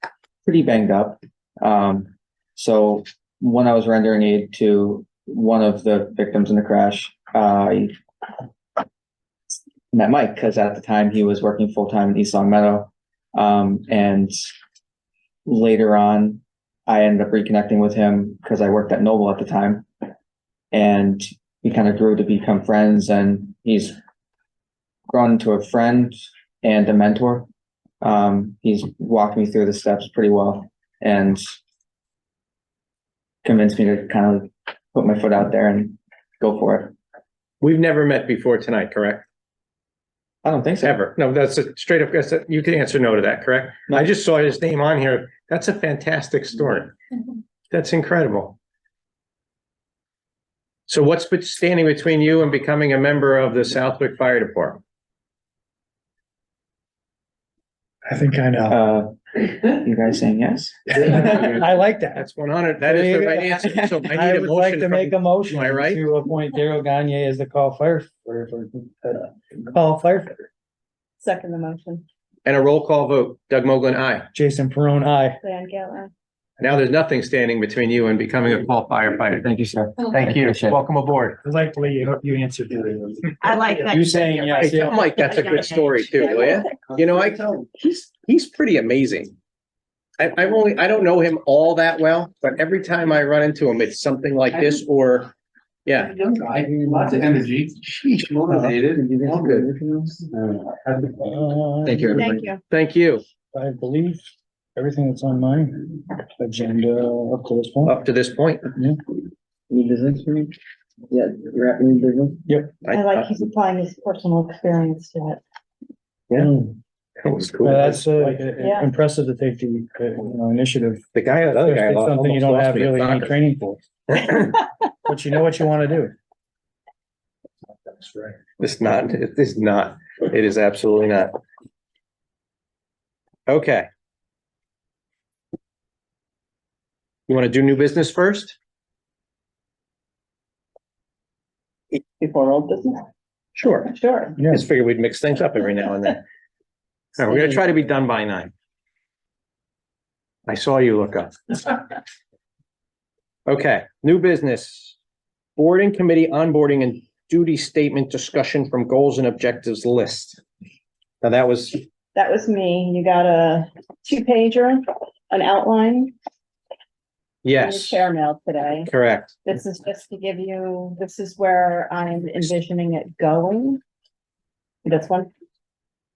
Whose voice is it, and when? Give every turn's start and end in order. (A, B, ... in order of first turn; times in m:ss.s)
0:00.4-0:07.9 A
0:09.9-0:14.4 A
0:15.5-0:19.9 A
0:20.7-0:24.0 A
0:25.1-0:27.5 A
0:28.0-0:31.4 A
0:33.4-0:37.0 A
0:37.6-0:39.3 B
0:40.4-0:41.0 A
0:40.8-0:47.0 B
0:47.7-0:48.6 B
0:50.9-0:54.8 B
0:58.1-0:58.8 C
0:58.7-1:01.3 A
1:01.0-1:02.2 C
1:02.2-1:06.0 B
1:02.8-1:10.4 C
1:11.2-1:12.0 D
1:12.4-1:14.3 B
1:14.3-1:15.4 C
1:15.4-1:16.1 D
1:16.6-1:21.4 B
1:19.4-1:20.8 A
1:21.4-1:23.4 C
1:23.4-1:26.6 D
1:23.9-1:25.0 C
1:24.5-1:29.3 B
1:30.2-1:35.3 B
1:35.9-1:36.3 B
1:36.6-1:37.6 E
1:36.9-1:37.2 A
1:37.9-1:39.7 B
1:38.4-1:39.7 E
1:38.5-1:38.8 C
1:39.0-1:40.4 A
1:41.2-1:42.2 C
1:41.9-1:42.3 A
1:42.1-1:42.6 D
1:42.7-1:43.2 B
1:43.5-1:44.2 C
1:44.8-1:45.9 C
1:46.4-1:48.0 C
1:47.8-1:48.7 B
1:49.7-1:50.5 A
1:51.1-1:52.4 A
1:52.5-1:52.7 C
1:52.8-1:53.3 B
1:52.9-1:55.4 D
1:56.4-1:56.8 C
1:57.2-1:58.0 B
1:57.6-2:01.0 C
1:58.6-1:58.9 D
2:01.1-2:03.4 B
2:01.6-2:04.4 C
2:05.1-2:06.1 C
2:08.6-2:11.4 B
2:13.5-2:13.9 B
2:17.3-2:18.6 B
2:21.9-2:23.1 D
2:23.6-2:26.2 B
2:23.9-2:24.4 D
2:27.2-2:28.5 B
2:27.3-2:27.6 D
2:30.5-2:31.8 B
2:33.5-2:35.0 B
2:35.6-2:40.4 B
2:41.2-2:41.8 B
2:42.2-2:46.1 D
2:47.4-2:48.1 B
2:47.6-2:48.9 D
2:48.8-2:49.4 B
2:49.4-2:53.8 D
2:54.8-2:55.3 D